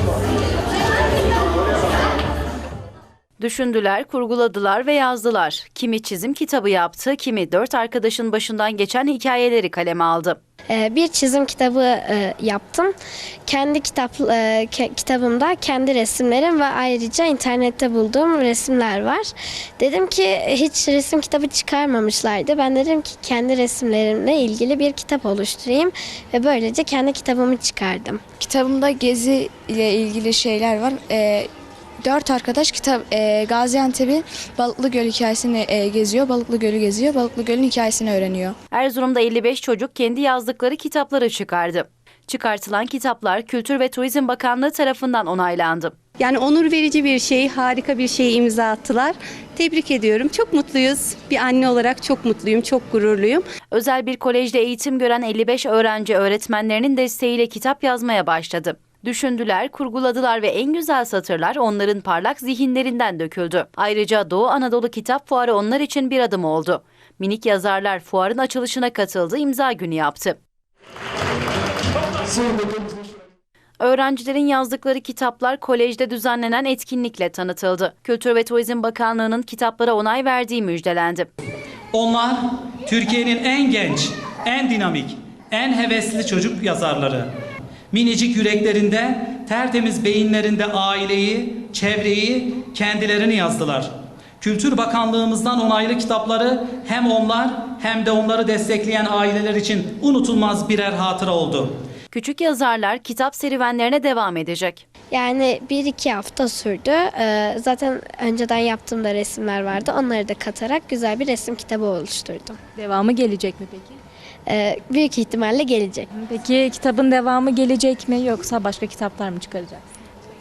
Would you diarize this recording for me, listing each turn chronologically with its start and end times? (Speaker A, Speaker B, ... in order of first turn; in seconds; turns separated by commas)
Speaker A: 3.4-10.4, Speaker B: 10.7-12.9, Speaker B: 13.5-28.2, Speaker C: 28.4-31.5, Speaker C: 32.0-38.5, Speaker A: 38.7-45.9, Speaker D: 46.2-53.5, Speaker A: 53.7-70.4, Speaker A: 73.8-81.3, Speaker E: 81.9-87.3, Speaker E: 87.9-93.9, Speaker E: 94.4-101.7, Speaker A: 102.1-104.8, Speaker B: 105.1-112.6, Speaker F: 112.8-114.0, Speaker B: 114.5-116.1, Speaker F: 116.1-119.8